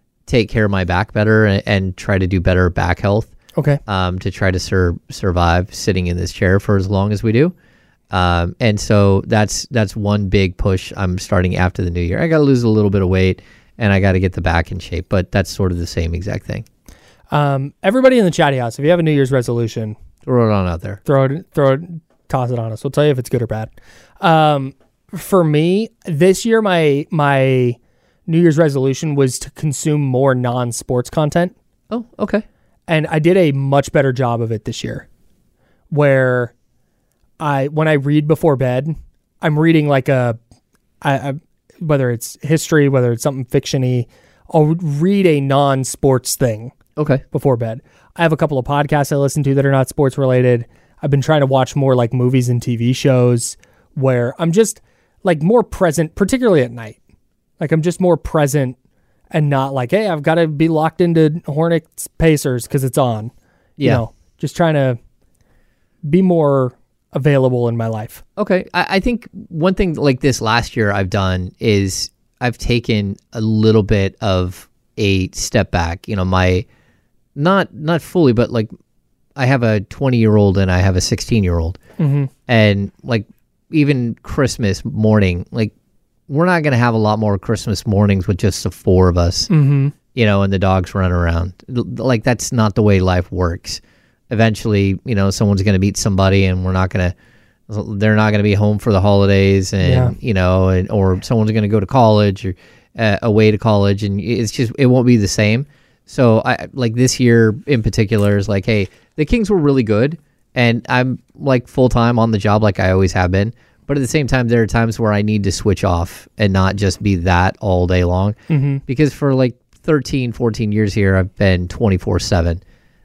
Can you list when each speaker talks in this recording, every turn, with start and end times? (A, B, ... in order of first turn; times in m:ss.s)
0:00.3-0:03.3 A
0:03.6-0:03.8 B
0:03.9-0:07.5 A
0:08.1-0:16.7 A
0:17.3-0:20.0 B
0:20.2-0:21.0 A
0:21.0-0:31.5 B
0:31.9-0:32.4 A
0:32.9-0:35.1 B
0:35.9-0:36.5 B
0:37.4-0:40.4 B
0:41.0-0:46.7 B
0:47.0-0:47.2 A
0:47.3-0:57.0 B
0:57.6-0:58.8 B
0:59.3-1:05.0 B
1:03.8-1:04.0 A
1:06.0-1:08.2 B
1:08.4-1:16.7 A
1:17.4-1:18.7 A
1:19.4-1:21.8 A
1:22.0-1:22.3 B
1:22.5-1:25.7 A
1:26.3-1:29.5 A
1:29.5-1:30.0 B
1:30.1-1:37.1 A
1:37.7-2:02.6 A
1:39.8-1:40.1 B
1:58.5-1:58.8 B